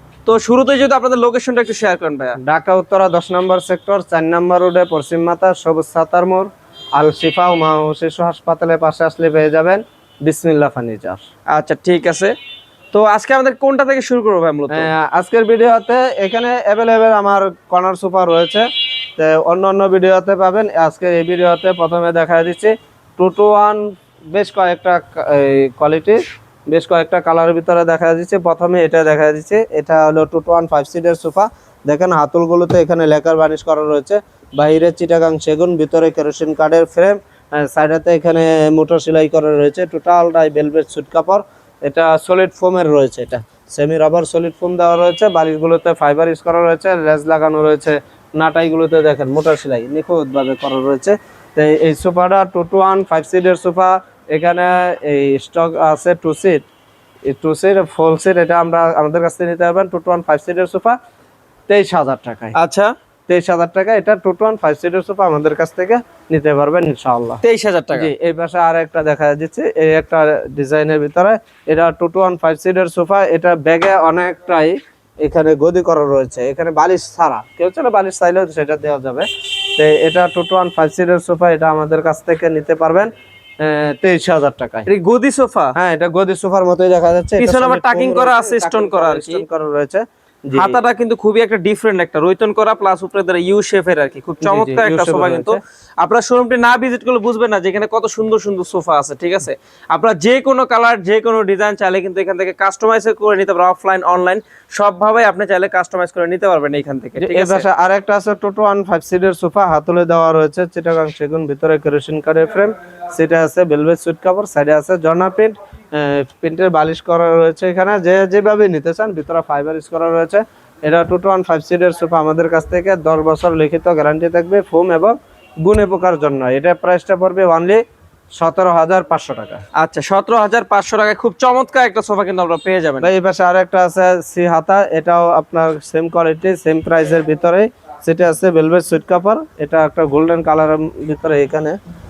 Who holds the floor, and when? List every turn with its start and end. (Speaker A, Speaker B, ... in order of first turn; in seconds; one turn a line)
Speaker A: 0.2-2.4
Speaker B: 2.4-11.2
Speaker A: 11.5-12.3
Speaker A: 12.9-14.9
Speaker B: 14.7-56.6
Speaker B: 57.3-61.0
Speaker B: 61.7-62.5
Speaker A: 62.5-62.9
Speaker B: 63.3-67.4
Speaker A: 67.4-68.1
Speaker B: 67.9-83.1
Speaker B: 83.6-84.9
Speaker A: 84.9-85.7
Speaker B: 85.8-90.8
Speaker A: 87.4-89.4
Speaker A: 90.5-107.6
Speaker B: 94.4-95.6
Speaker B: 107.2-127.8
Speaker B: 128.4-129.6
Speaker A: 129.8-133.1
Speaker B: 133.0-141.8